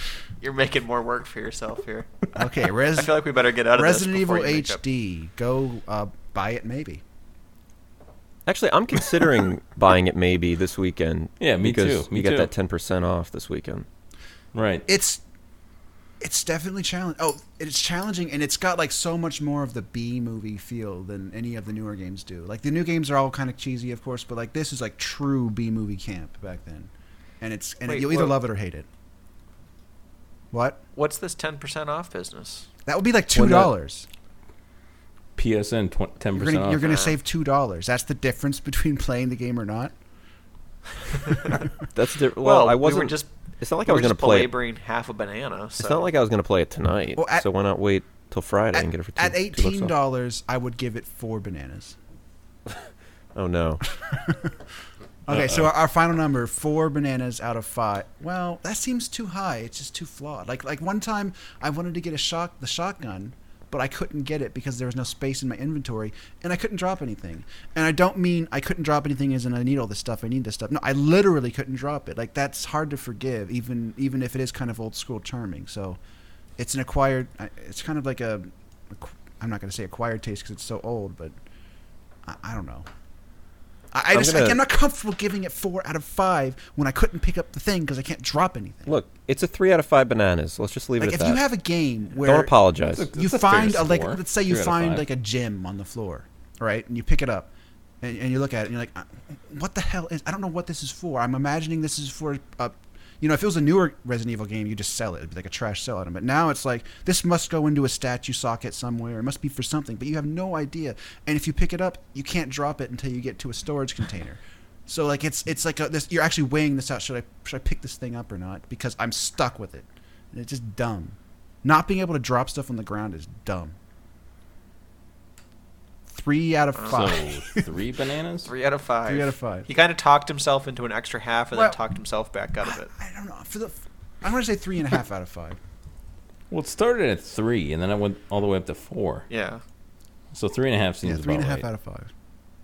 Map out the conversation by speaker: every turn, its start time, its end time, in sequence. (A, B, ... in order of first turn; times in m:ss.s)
0:00.4-0:02.1 A
0:02.3-0:03.2 B
0:02.9-0:04.8 A
0:03.7-0:07.0 B
0:08.4-0:13.8 C
0:11.4-0:12.5 D
0:14.5-0:14.8 D
0:14.9-0:15.2 B
0:16.2-0:28.9 B
0:27.8-0:28.4 A
0:30.5-0:30.8 B
0:30.9-0:32.7 A
0:32.8-0:34.1 B
0:33.3-0:33.7 C
0:35.4-0:36.9 D
0:36.3-0:39.9 B
0:36.8-0:37.2 A
0:41.3-0:41.6 B
0:41.9-0:44.5 C
0:42.4-0:43.3 A
0:43.8-0:46.1 A
0:45.8-0:49.9 C
0:47.2-0:47.4 B
0:48.7-0:52.0 B
0:53.3-0:53.8 C
0:54.0-0:54.6 B
0:55.3-1:16.0 B
0:55.3-0:55.6 D
1:16.6-1:21.3 B
1:22.2-1:22.9 B
1:23.9-1:28.9 B
1:24.1-1:24.6 C
1:28.9-1:31.4 C
1:31.0-1:32.6 B
1:32.2-1:33.0 C
1:32.9-1:35.0 D
1:33.1-1:37.5 B
1:38.0-2:03.8 B
2:06.1-2:07.6 B
2:06.9-2:08.5 D
2:08.4-2:12.9 A
2:09.0-2:09.7 B
2:11.5-2:11.8 B
2:12.6-2:15.6 B
2:16.5-2:19.3 D
2:19.3-2:19.6 A
2:20.3-2:21.6 D
2:21.0-2:22.1 B